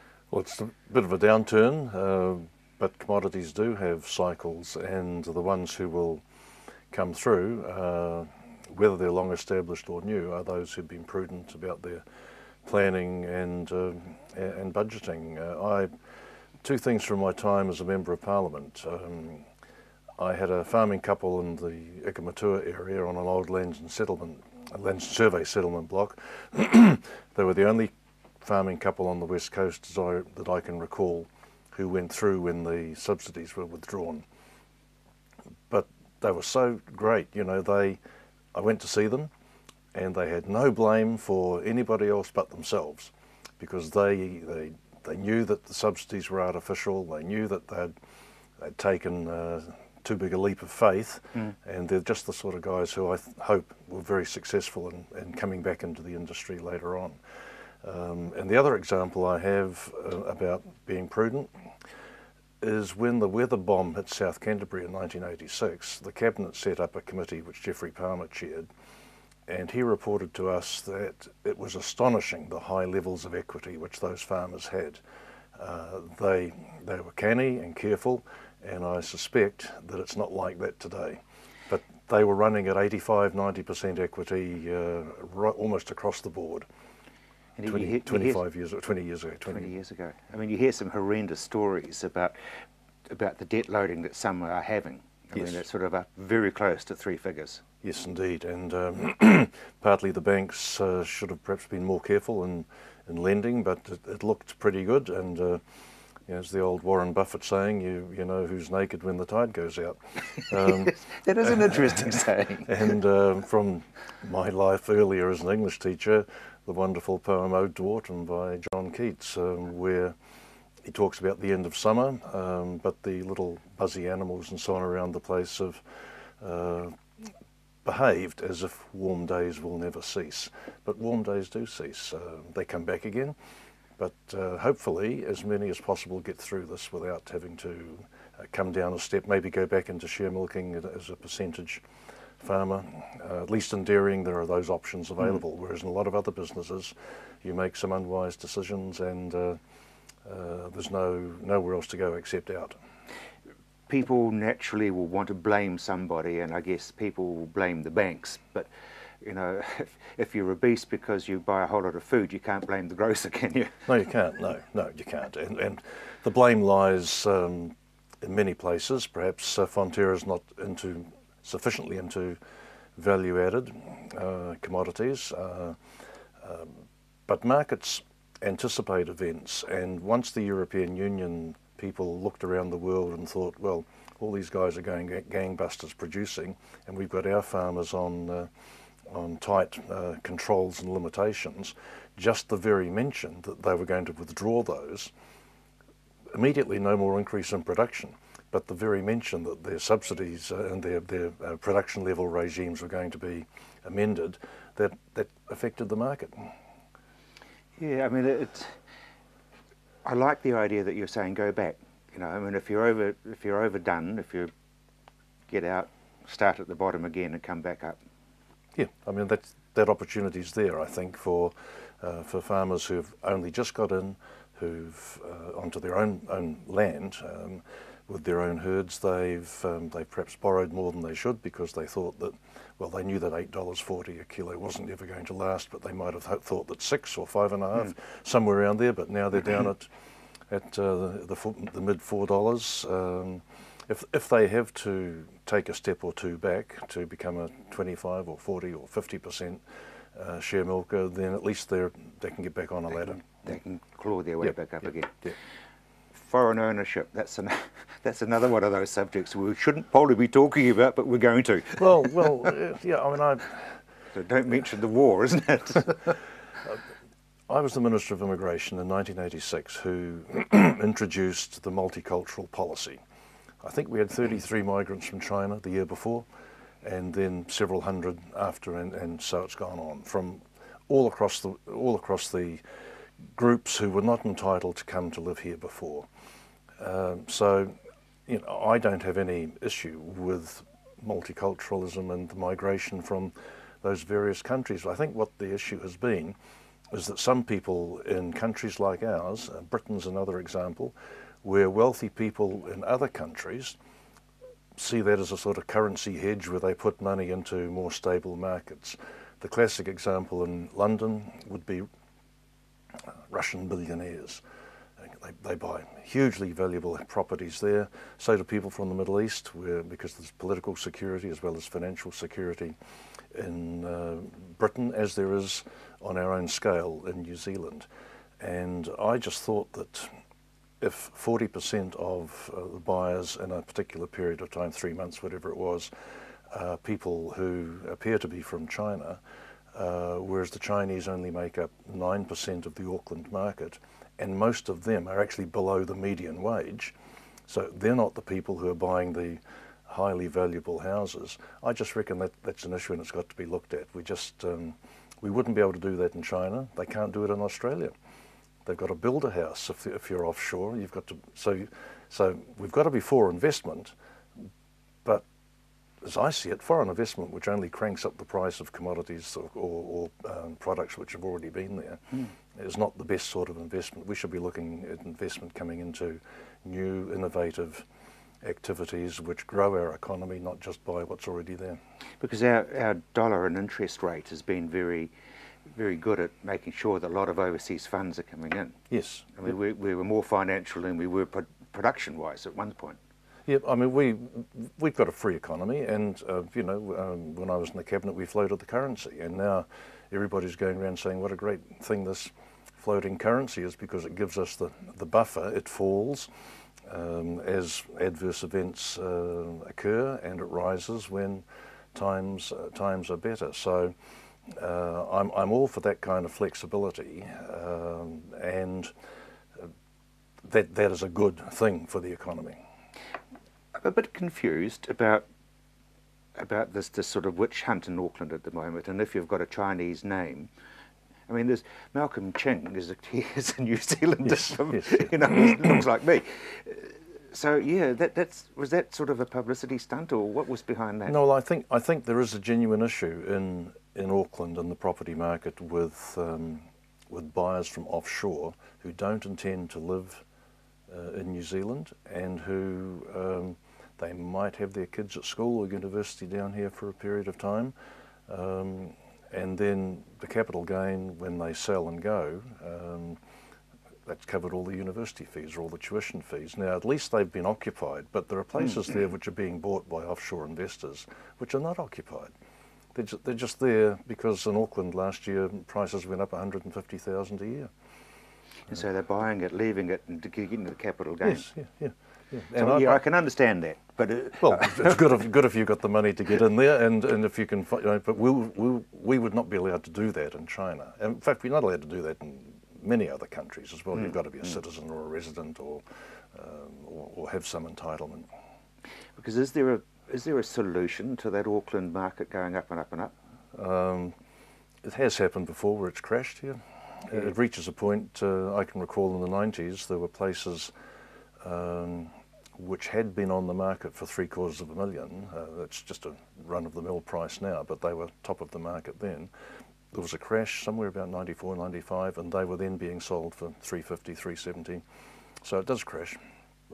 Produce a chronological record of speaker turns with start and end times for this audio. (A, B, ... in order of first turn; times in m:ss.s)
0:00.3-0:06.2 A
0:06.9-0:12.0 A
0:12.6-0:15.9 A
0:16.6-0:19.4 A
0:20.2-0:34.2 A
0:35.7-0:38.0 A
0:38.5-0:39.3 A
0:39.9-0:47.9 A
0:48.6-0:57.2 A
0:57.8-1:01.5 A
1:02.6-1:08.7 A
1:09.5-1:15.0 A
1:15.6-1:26.7 A
1:27.6-1:28.4 B
1:27.6-1:29.7 A
1:29.5-1:32.4 B
1:33.1-1:37.6 B
1:37.8-1:45.6 A
1:46.3-1:51.0 A
1:50.5-1:52.9 B
1:51.7-1:51.9 A
1:52.6-2:00.1 A
2:00.8-2:05.8 A
2:06.4-2:07.0 A
2:07.8-2:13.4 A
2:14.0-2:21.8 A
2:22.4-2:29.6 A
2:30.2-2:32.8 A
2:33.9-2:38.7 B
2:39.2-2:43.8 B
2:43.9-2:52.4 A
2:53.0-2:55.8 A
2:56.4-3:08.5 A
3:09.1-3:15.1 A
3:16.3-3:26.5 A
3:27.8-3:28.8 B
3:30.0-3:34.5 B
3:35.5-3:38.0 B
3:38.8-3:59.9 A
4:00.5-4:09.6 A
4:10.1-4:13.4 A
4:13.2-4:15.3 B
4:16.1-4:22.5 B
4:21.7-4:23.8 A
4:24.1-4:26.2 B
4:27.5-4:33.0 A
4:33.6-4:36.2 A
4:36.8-4:42.6 A
4:43.3-4:46.1 A
4:46.8-4:47.8 A
4:48.3-4:56.4 A
4:56.9-5:03.8 A
5:04.7-5:11.8 A
5:13.3-5:14.4 A
5:15.0-5:22.8 A
5:23.3-5:27.9 A
5:28.4-5:30.1 A
5:30.8-5:35.9 A
5:36.5-5:39.2 A
5:39.7-5:46.9 A
5:47.5-5:57.9 A
5:58.6-6:03.9 A
6:06.0-6:17.8 A
6:18.4-6:21.8 A
6:22.2-6:25.1 B
6:25.7-6:28.8 B
6:28.9-6:29.5 A
6:29.3-6:33.0 B
6:33.5-6:46.3 A
6:46.8-6:53.9 A
6:54.5-6:58.9 A
7:00.4-7:02.6 A
7:03.7-7:05.2 B
7:06.4-7:10.5 B
7:11.3-7:21.2 B
7:14.2-7:15.7 A
7:21.1-7:30.2 A
7:30.9-7:37.7 A
7:38.3-7:43.2 A
7:44.0-7:52.3 A
7:52.9-7:57.7 A
7:58.7-8:01.5 B
8:01.2-8:03.0 A
8:02.5-8:05.1 B
8:04.4-8:18.3 A
8:19.2-8:23.1 B
8:23.5-8:24.1 A
8:24.8-8:30.7 A
8:31.4-8:39.3 A
8:39.9-8:44.8 A
8:45.4-8:46.2 A